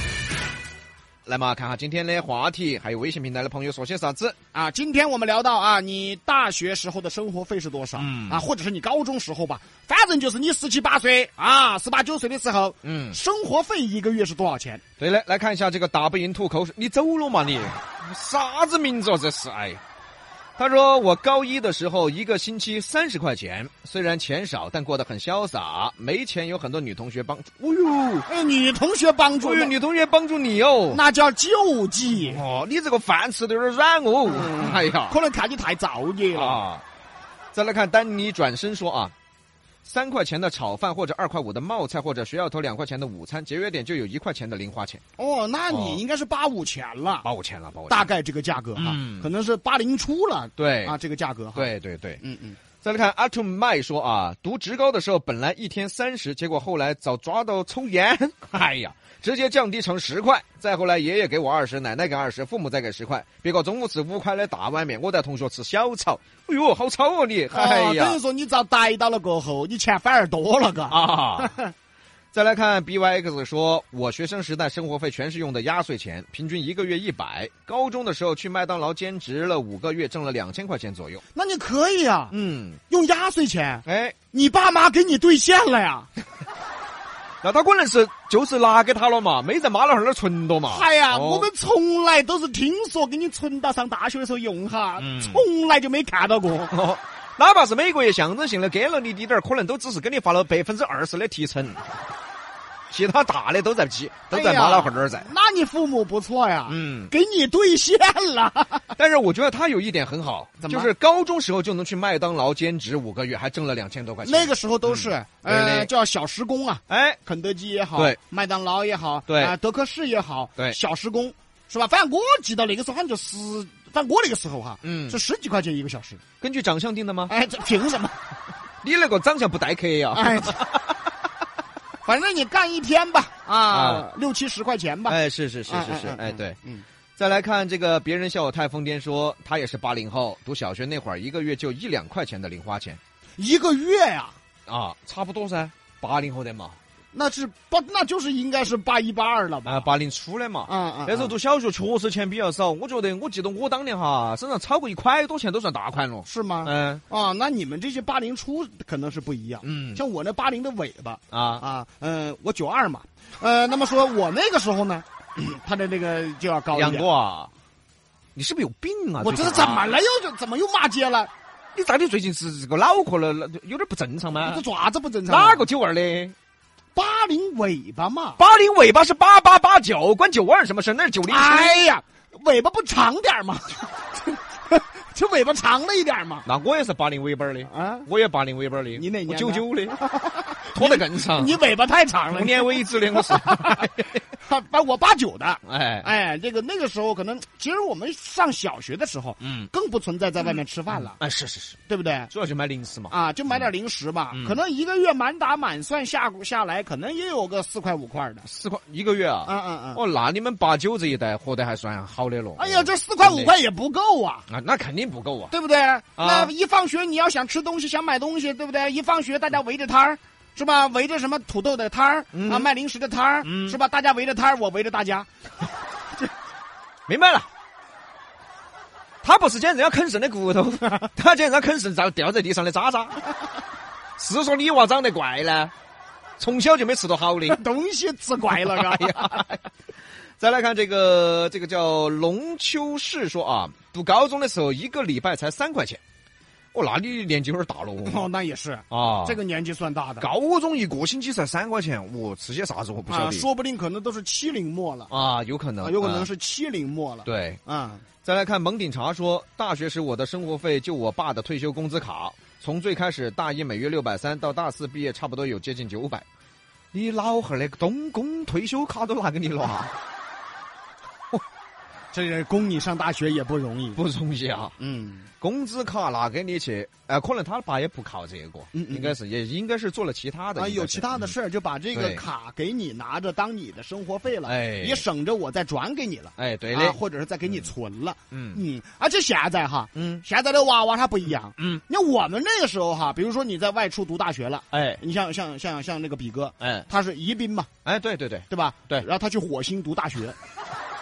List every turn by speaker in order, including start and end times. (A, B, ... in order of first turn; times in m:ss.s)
0:01.2-0:04.4 A
0:04.5-0:14.8 B
0:08.0-0:08.4 A
0:12.8-0:13.2 A
0:15.0-0:19.8 A
0:20.6-0:28.3 A
0:28.3-0:29.7 B
0:29.4-0:31.0 A
0:30.9-0:32.4 B
0:32.1-0:35.2 A
0:34.3-0:36.6 B
0:36.3-0:36.8 A
0:37.5-0:39.1 A
0:39.8-0:45.0 A
0:45.2-0:47.2 B
0:45.7-0:46.0 A
0:47.2-0:48.1 A
0:47.9-0:51.7 B
0:48.8-0:49.2 A
0:50.6-0:50.9 A
0:51.5-0:52.2 A
0:52.2-0:52.6 B
0:52.8-1:08.2 A
1:07.5-1:11.7 B
1:10.9-1:11.6 A
1:12.3-1:21.2 A
1:21.3-1:22.3 B
1:22.3-1:22.8 A
1:22.9-1:26.1 B
1:23.8-1:24.2 A
1:27.4-1:31.5 A
1:30.7-1:36.7 B
1:35.0-1:35.4 A
1:36.7-1:41.9 A
1:42.9-1:45.3 A
1:44.3-1:48.9 B
1:46.7-1:47.1 A
1:49.0-1:55.9 A
1:50.6-1:50.9 B
1:54.2-2:06.2 B
1:56.9-1:57.2 A
1:59.3-1:59.5 A
2:04.8-2:05.2 A
2:06.4-2:07.3 A
2:07.3-2:08.2 B
2:08.8-2:10.8 A
2:10.1-2:10.7 B
2:12.0-2:15.2 B
2:13.7-2:14.1 A
2:15.1-2:16.6 A
2:15.7-2:16.8 B
2:17.2-2:23.0 A
2:23.4-2:24.4 B
2:24.7-2:26.8 A
2:27.1-2:29.9 B
2:29.6-2:37.0 A
2:30.7-2:31.3 B
2:36.2-2:47.1 B
2:39.6-2:40.0 A
2:41.3-2:41.6 A
2:46.7-2:47.5 A
2:48.3-2:50.0 A
2:49.2-2:51.3 B
2:51.7-2:54.6 A
2:54.3-2:55.6 B
2:55.3-2:56.3 A
2:56.9-2:58.4 B
2:58.4-3:01.8 A
3:01.3-3:06.4 B
3:06.4-3:10.0 A
3:07.7-3:08.1 B
3:09.0-3:21.2 B
3:10.7-3:11.6 A
3:12.3-3:14.2 A
3:15.6-3:16.1 A
3:19.4-3:19.7 A
3:21.2-3:21.8 A
3:21.9-3:22.3 B
3:22.3-3:23.6 A
3:23.1-3:28.4 B
3:24.3-3:24.6 A
3:28.4-3:33.5 A
3:29.4-3:30.0 B
3:32.6-3:34.4 B
3:34.5-3:35.5 A
3:35.5-3:45.3 B
3:36.2-3:36.5 A
3:42.3-3:42.7 A
3:43.4-3:43.8 A
3:47.1-3:47.5 A
3:49.2-3:53.2 A
3:54.2-3:55.7 A
3:56.4-3:57.6 A
3:57.5-3:59.4 B
3:58.6-3:59.6 A
4:00.4-4:06.0 A
4:06.7-4:08.3 A
4:08.0-4:10.3 B
4:08.9-4:09.4 A
4:10.2-4:13.4 A
4:13.1-4:15.1 B
4:15.1-4:16.3 A
4:15.8-4:18.0 B
4:17.2-4:17.6 A
4:18.2-4:26.2 A
4:26.9-4:30.0 A
4:32.1-4:34.0 B
4:33.9-4:34.7 A
4:34.8-4:35.3 B
4:35.4-4:41.3 A
4:38.7-4:39.2 B
4:40.6-4:57.7 B
4:41.9-4:42.2 A
4:44.4-4:45.0 A
4:46.4-4:47.0 A
4:48.3-4:48.6 A
4:49.9-4:50.2 A
4:54.7-4:55.0 A
4:56.6-4:56.8 A
4:57.8-4:59.0 A
4:58.5-5:00.3 B